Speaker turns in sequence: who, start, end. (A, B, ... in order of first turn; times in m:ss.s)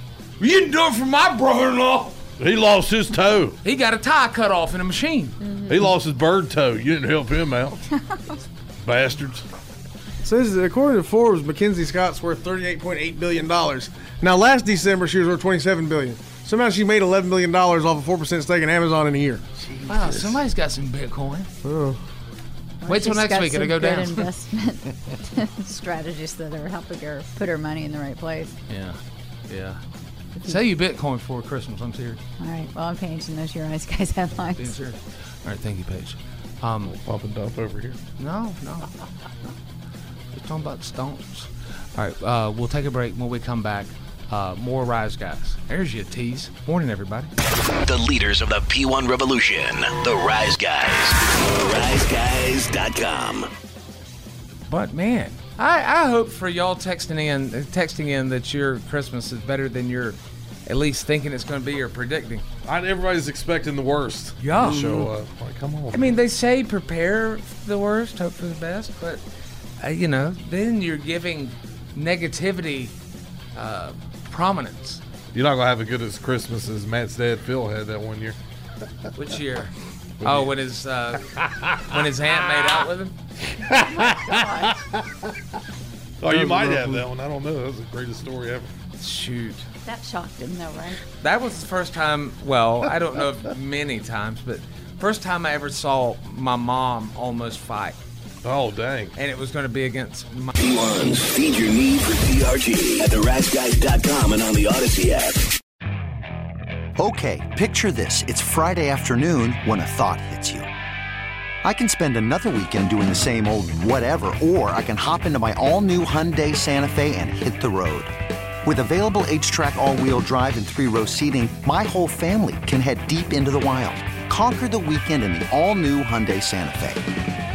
0:00.4-0:02.2 A
0:02.4-0:03.6 B
0:03.6-0:05.4 A
0:05.5-0:05.8 C
0:05.7-0:07.8 B
0:08.8-0:09.4 B
0:10.2-0:19.4 D
0:19.8-0:21.5 A
0:21.6-0:22.0 D
0:22.8-0:28.5 C
0:22.8-0:24.3 A
0:28.7-0:29.0 A
0:29.5-0:29.8 A
0:30.4-0:32.2 A
0:32.4-0:34.7 C
0:34.6-0:36.9 A
0:36.8-0:38.0 B
0:38.2-0:38.9 A
0:40.3-0:47.3 A
0:47.8-0:53.5 E
0:54.7-1:02.4 A
1:02.6-1:06.2 B
1:04.4-1:05.1 A
1:05.9-1:09.2 A
1:09.8-1:12.9 A
1:13.5-1:15.0 A
1:15.3-1:18.4 B
1:19.1-1:19.7 A
1:20.2-1:23.1 A
1:20.2-1:20.5 B
1:23.7-1:24.8 B
1:23.7-1:24.7 C
1:26.2-1:28.7 B
1:29.0-1:29.7 A
1:29.8-1:31.0 C
1:31.2-1:38.0 A
1:38.4-1:39.1 B
1:39.2-1:40.6 A
1:40.6-1:45.4 E
1:47.0-1:50.7 F
1:51.6-2:07.0 F